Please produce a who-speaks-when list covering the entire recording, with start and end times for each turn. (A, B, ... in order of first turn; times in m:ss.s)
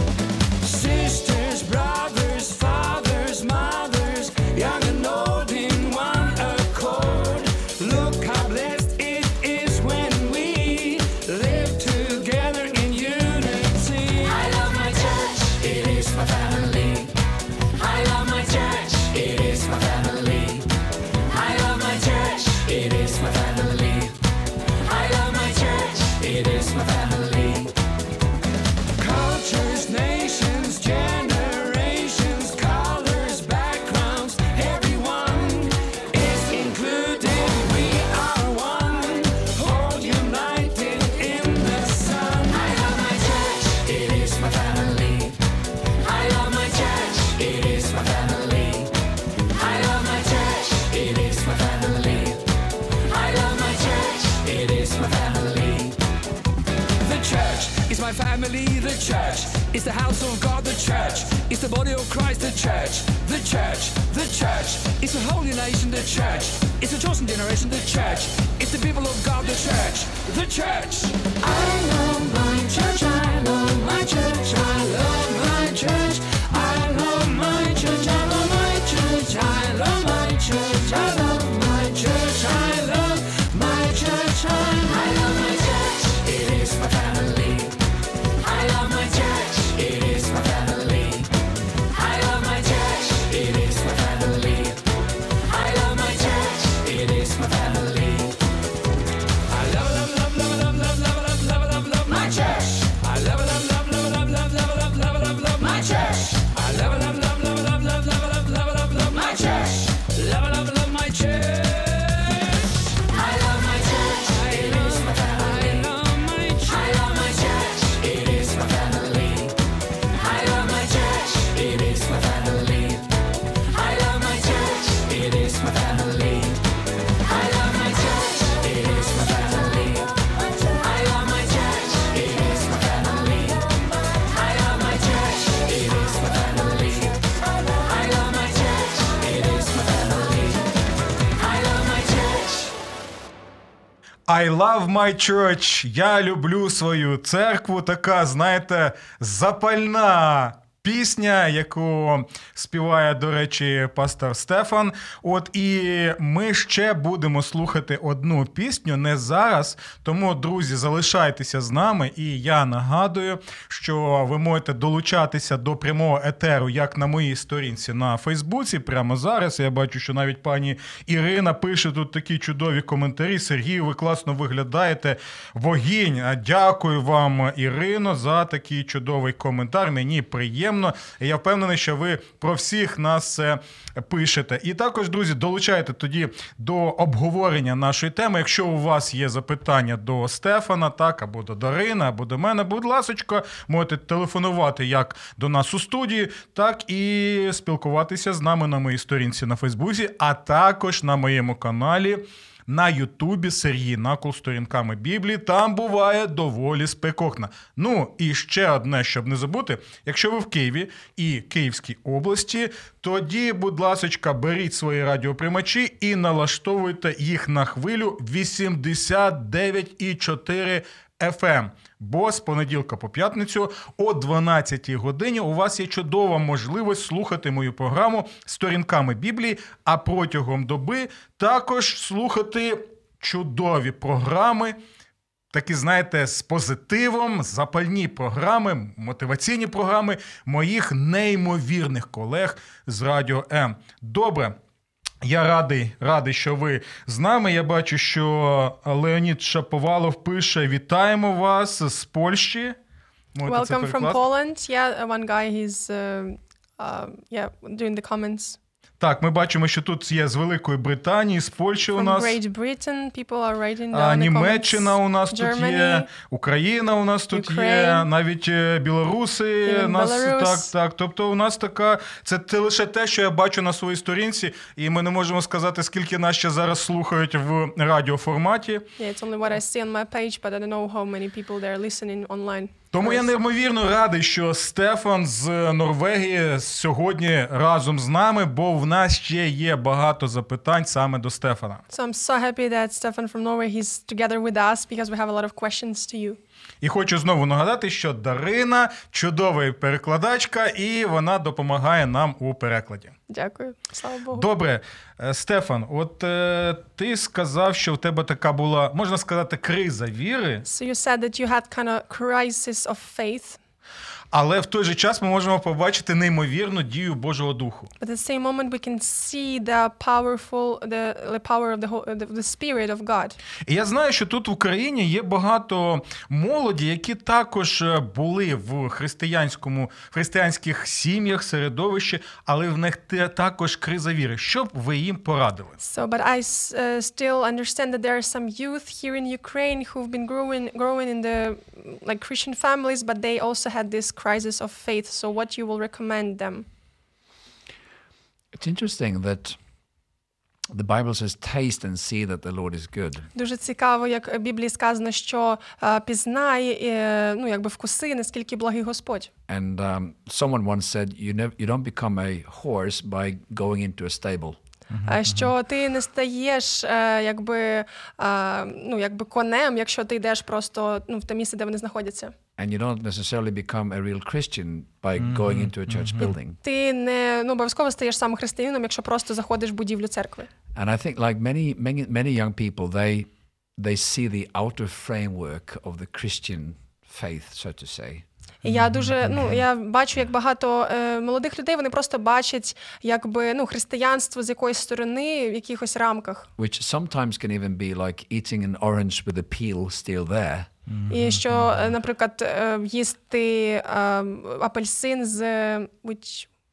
0:00.6-0:17.1 A
0:17.7-0:20.7 A
0:21.3-0:24.1 A
0:24.8-0:27.7 A
0:29.0-0:45.4 A
0:46.0-0:48.9 A
0:49.5-0:52.4 A
0:53.0-0:56.0 A
0:57.0-1:27.7 A
1:28.4-1:31.3 A
1:31.9-1:34.8 A
1:35.4-1:38.3 A
1:39.5-1:59.5 A
2:00.1-2:03.0 A
2:03.6-2:06.6 A
2:07.2-2:20.6 A
2:21.4-2:22.7 A
2:24.3-3:54.8 B
3:55.5-4:04.6 B
4:05.2-4:12.8 B
4:13.3-4:14.2 B
4:13.4-4:18.6 C
4:19.0-4:22.4 B
4:22.0-4:26.1 C
4:23.9-4:38.9 B
4:27.3-4:28.1 C
4:29.6-4:30.7 C
4:39.0-4:43.3 C
4:42.9-4:51.8 B
4:51.9-4:56.4 C
4:56.8-5:03.1 B
5:03.3-5:04.4 C
5:04.3-5:10.6 B
5:10.6-5:13.6 C
5:14.3-5:17.9 B
5:18.0-5:23.4 C
5:23.6-5:35.8 B
5:35.8-5:46.6 C
5:48.5-5:49.6 D
5:50.7-5:53.3 D
5:53.3-5:59.3 C
5:59.5-6:04.6 D
6:04.9-6:05.5 B
6:05.0-6:12.3 C
6:12.6-6:16.6 D
6:15.2-6:16.3 B
6:16.6-6:20.5 C
6:20.7-6:28.2 D
6:28.6-6:36.5 C
6:28.6-6:29.5 B
6:36.6-6:40.7 D
6:40.9-6:41.9 B
6:41.1-6:46.5 C